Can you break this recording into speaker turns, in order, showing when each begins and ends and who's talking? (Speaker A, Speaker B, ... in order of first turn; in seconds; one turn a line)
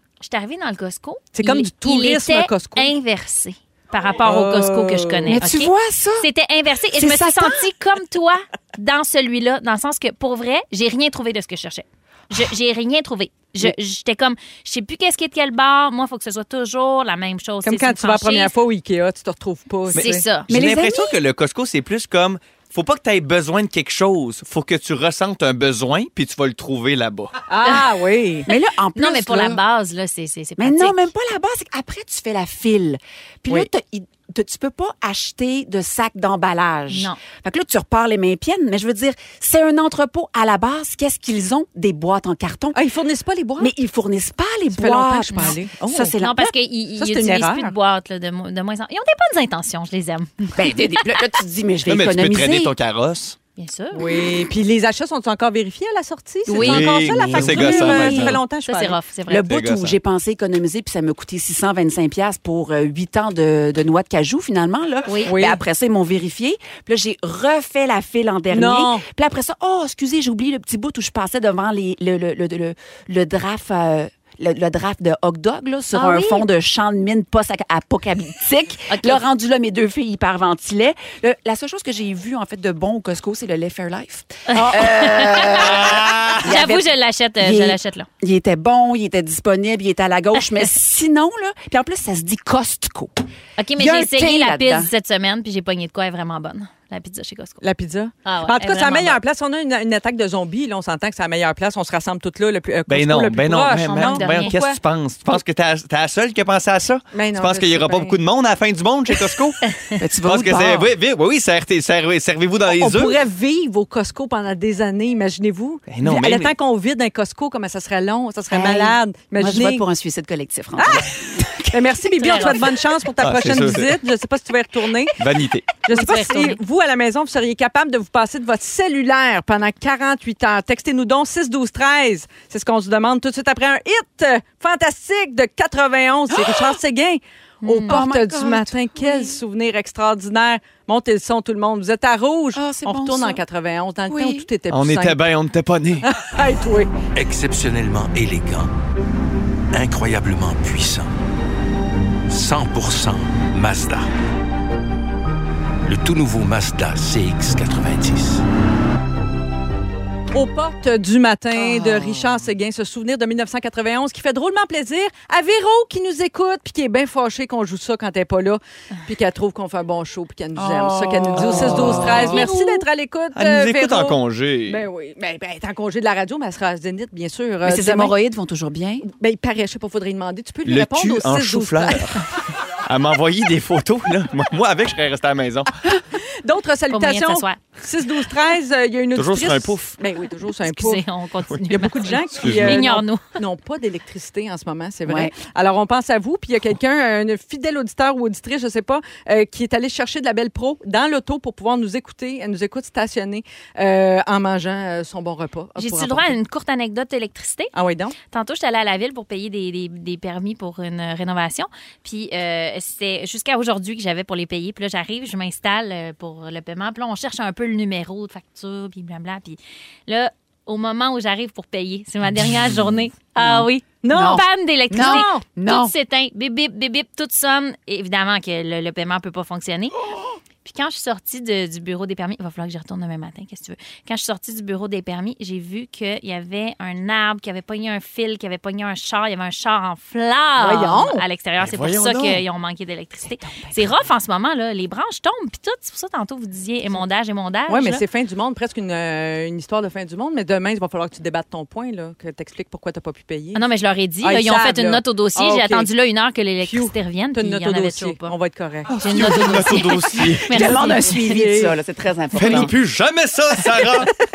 Speaker A: 0.2-18.5
Speaker B: 1.3-2.9
Speaker B: 4.2-5.3
Speaker C: 5.3-6.3
Speaker C: 6.9-7.7
Speaker B: 17.6-20.2
Speaker A: 19.9-20.5
Speaker D: 19.9-27.3
Speaker C: 20.5-21.2
Speaker B: 27.5-28.5
Speaker C: 28.5-29.6
Speaker A: 28.9-31.1
Speaker C: 30.6-42.8
Speaker A: 36.9-37.2
Speaker B: 42.8-43.7
Speaker C: 43.6-46.5
Speaker B: 44.7-46.2
Speaker A: 46.2-51.1
Speaker B: 47.0-47.7
Speaker C: 50.5-52.7
Speaker D: 51.9-53.4
Speaker A: 53.6-54.1
Speaker B: 53.9-59.0
Speaker A: 56.5-59.5
Speaker D: 56.6-58.4
Speaker C: 57.3-58.1
Speaker C: 59.3-93.2
Speaker D: 59.4-60.0
Speaker A: 65.1-65.3
Speaker B: 65.3-65.6
Speaker B: 68.5-69.0
Speaker A: 75.9-76.5
Speaker A: 78.9-79.2
Speaker A: 84.5-88.1
Speaker D: 85.9-86.4
Speaker A: 93.6-97.6
Speaker C: 93.8-94.9
Speaker B: 97.6-104.8
Speaker A: 98.2-99.2
Speaker D: 102.9-109.6
Speaker A: 103.9-104.5
Speaker B: 107.1-108.2
Speaker C: 110.0-110.9
Speaker D: 110.2-113.2
Speaker B: 112.7-119.8
Speaker D: 115.9-116.5
Speaker C: 118.5-121.8
Speaker B: 120.8-121.2
Speaker B: 121.7-125.2
Speaker A: 122.2-122.7
Speaker D: 123.2-124.0
Speaker D: 125.2-125.7
Speaker B: 125.8-145.2
Speaker A: 125.9-126.6
Speaker C: 136.3-136.8
Speaker A: 137.6-138.0
Speaker C: 137.8-139.4
Speaker C: 142.6-143.4
Speaker C: 144.1-144.5
Speaker D: 144.7-146.1
Speaker B: 146.0-146.9
Speaker E: 147.2-148.7
Speaker E: 149.7-151.1
Speaker E: 152.3-154.1
Speaker E: 155.8-158.4
Speaker B: 160.3-178.2
Speaker C: 170.6-172.4
Speaker D: 171.4-172.4
Speaker A: 172.3-172.8
Speaker D: 173.3-174.8
Speaker C: 177.6-179.1
Speaker B: 179.0-182.2
Speaker D: 180.7-185.9
Speaker B: 186.1-191.0
Speaker A: 186.9-187.6
Speaker D: 189.2-190.0
Speaker A: 190.6-193.2
Speaker B: 191.7-206.4
Speaker D: 192.3-192.8
Speaker C: 195.1-195.3
Speaker A: 205.8-207.7
Speaker B: 207.7-208.2
Speaker A: 208.3-230.0
Speaker C: 223.4-225.9
Speaker B: 224.0-224.4
Speaker B: 225.0-225.4
Speaker A: 230.6-248.0
Speaker B: 240.6-241.2
Speaker D: 241.6-242.4
Speaker C: 243.2-243.9
Speaker B: 247.7-253.6
Speaker A: 253.6-258.3
Speaker B: 254.2-255.9
Speaker B: 256.6-259.0
Speaker D: 258.9-260.5
Speaker A: 259.0-261.2
Speaker C: 260.5-262.8
Speaker B: 261.1-261.7
Speaker D: 262.4-264.1